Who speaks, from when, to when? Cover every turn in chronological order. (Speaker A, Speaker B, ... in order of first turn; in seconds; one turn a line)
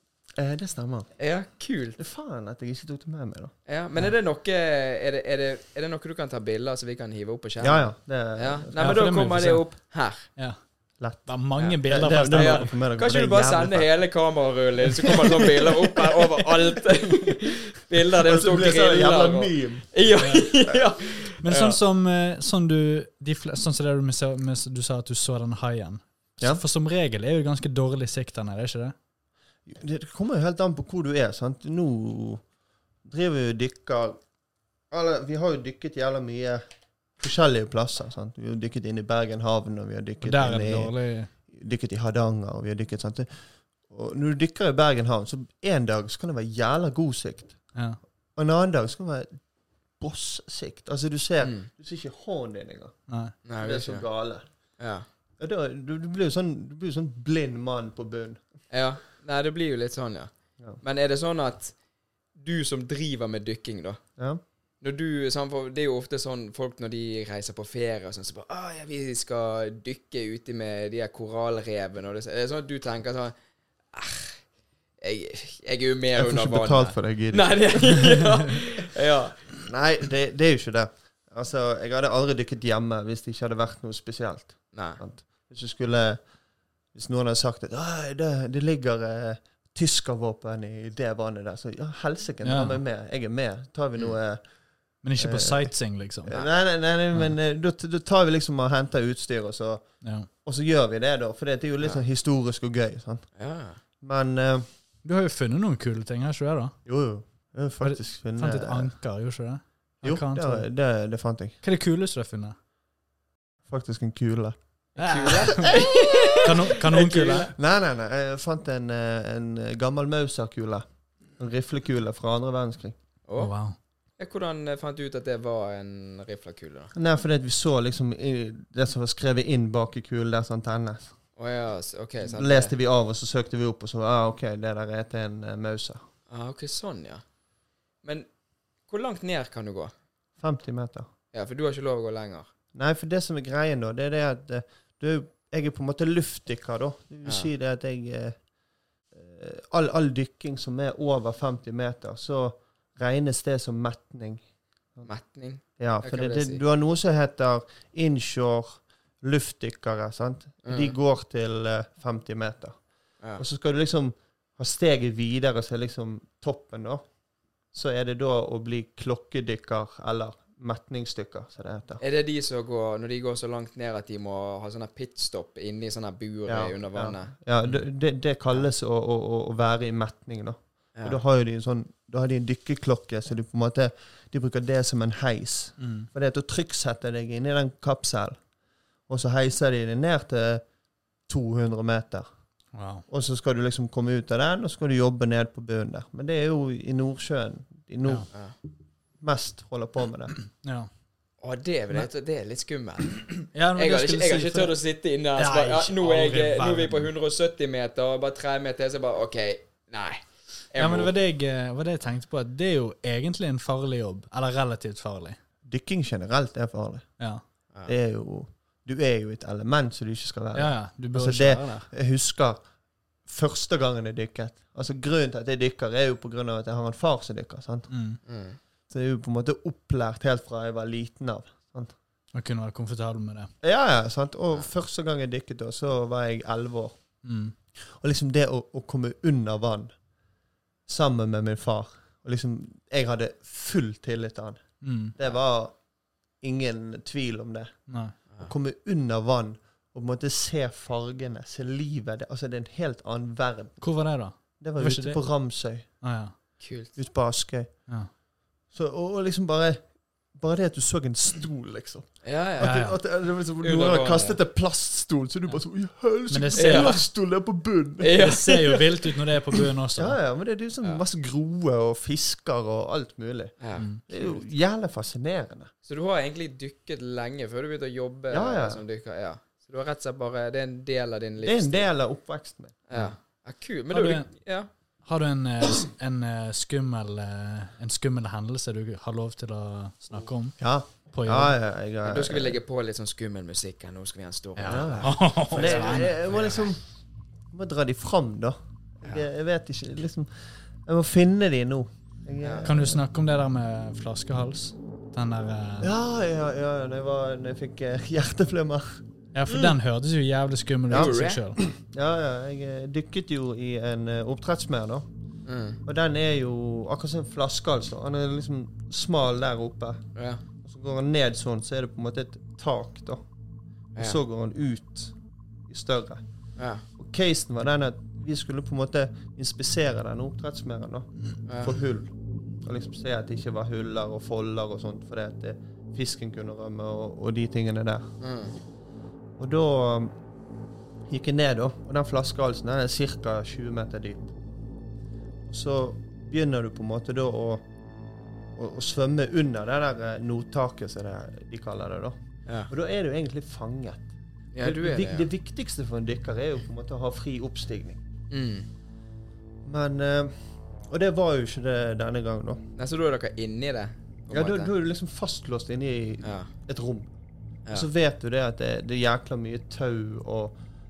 Speaker A: 0.4-1.2
Speaker B: 1.2-2.0
Speaker A: 2.0-3.5
Speaker B: 3.7-10.3
Speaker A: 7.6-8.9
Speaker C: 8.8-12.8
Speaker A: 11.0-13.9
Speaker B: 11.6-21.8
Speaker A: 18.2-19.9
Speaker C: 20.2-20.5
Speaker C: 21.4-28.9
Speaker A: 29.7-32.4
Speaker A: 33.0-34.2
Speaker A: 34.9-36.6
Speaker A: 37.2-47.7
Speaker C: 40.2-41.3
Speaker C: 47.7-48.0
Speaker A: 48.4-49.4
Speaker A: 50.0-54.8
Speaker B: 51.4-51.7
Speaker C: 53.1-53.4
Speaker B: 53.5-54.1
Speaker B: 54.8-55.1
Speaker A: 55.4-58.4
Speaker B: 58.7-61.8
Speaker B: 62.3-64.0
Speaker B: 64.8-73.3
Speaker B: 73.9-79.5
Speaker A: 76.2-78.1
Speaker A: 79.7-86.3
Speaker B: 84.7-85.0
Speaker A: 86.9-94.5
Speaker C: 92.4-92.8
Speaker C: 95.0-96.3
Speaker A: 95.2-103.3
Speaker C: 100.0-100.3
Speaker B: 103.4-103.8
Speaker A: 103.9-104.7
Speaker C: 105.0-106.8
Speaker A: 106.8-109.0
Speaker C: 107.8-110.7
Speaker A: 110.0-111.6
Speaker C: 111.6-112.6
Speaker A: 113.7-115.2
Speaker B: 115.0-117.5
Speaker C: 115.0-117.5
Speaker A: 117.5-123.0
Speaker B: 123.3-123.6
Speaker C: 123.4-123.8
Speaker B: 124.2-126.9
Speaker A: 126.9-131.2
Speaker B: 131.4-132.8
Speaker A: 132.2-136.0
Speaker B: 136.3-137.3
Speaker B: 138.0-138.3
Speaker B: 138.9-139.9
Speaker A: 140.4-141.1
Speaker B: 141.3-142.5
Speaker A: 142.7-148.4
Speaker B: 147.2-147.5
Speaker A: 149.1-154.4
Speaker B: 155.1-156.6
Speaker A: 155.8-167.1
Speaker B: 160.6-160.9
Speaker A: 167.7-172.0
Speaker B: 172.0-177.8
Speaker A: 176.5-188.4
Speaker B: 180.9-181.2
Speaker C: 185.8-186.1
Speaker A: 189.1-190.7
Speaker A: 191.3-192.3
Speaker C: 192.7-193.1
Speaker A: 193.1-198.3
Speaker A: 199.2-200.3
Speaker C: 200.4-200.9
Speaker B: 201.4-211.1
Speaker C: 203.5-207.1
Speaker C: 210.8-215.4
Speaker A: 215.7-217.3
Speaker A: 217.8-222.7
Speaker C: 220.6-221.9
Speaker A: 223.2-227.9
Speaker C: 227.9-228.2
Speaker B: 228.3-228.6
Speaker A: 228.9-231.9
Speaker C: 232.3-233.5
Speaker A: 233.6-237.0
Speaker C: 237.2-237.5
Speaker A: 237.8-239.9
Speaker A: 240.9-245.8
Speaker C: 244.8-245.1
Speaker A: 246.3-256.0
Speaker C: 247.9-248.2
Speaker C: 253.8-256.4
Speaker B: 256.6-257.0
Speaker A: 256.9-258.1
Speaker A: 258.7-268.2
Speaker B: 262.2-262.8
Speaker C: 262.6-263.0
Speaker B: 263.6-264.4
Speaker C: 266.3-267.0
Speaker B: 266.5-267.0
Speaker B: 268.0-269.0
Speaker C: 268.1-270.2
Speaker A: 270.0-275.7
Speaker B: 273.6-273.9
Speaker C: 273.8-274.1
Speaker B: 275.9-281.9
Speaker A: 278.3-278.8
Speaker A: 281.4-282.9
Speaker B: 282.9-284.7
Speaker C: 283.9-291.6
Speaker A: 290.6-292.6
Speaker B: 292.1-296.6
Speaker C: 294.6-296.4
Speaker A: 294.7-296.8
Speaker A: 297.5-303.0
Speaker B: 302.4-302.7
Speaker C: 302.6-305.9
Speaker A: 305.8-309.0
Speaker C: 309.3-311.6
Speaker B: 309.5-309.7
Speaker B: 310.9-311.4
Speaker A: 310.9-315.1
Speaker B: 315.4-315.8
Speaker A: 315.8-320.1
Speaker B: 320.1-320.4
Speaker A: 320.6-323.3
Speaker B: 323.9-324.2
Speaker A: 324.0-338.1
Speaker B: 326.6-326.9
Speaker B: 331.5-331.8
Speaker B: 338.2-338.6
Speaker A: 339.4-340.2
Speaker A: 341.1-344.3
Speaker A: 345.5-347.7
Speaker A: 348.6-354.1
Speaker B: 354.5-355.3
Speaker A: 354.6-358.0
Speaker B: 358.3-358.7
Speaker A: 359.6-362.6
Speaker B: 362.8-364.7
Speaker A: 364.3-367.1
Speaker B: 366.2-366.5
Speaker A: 367.7-370.6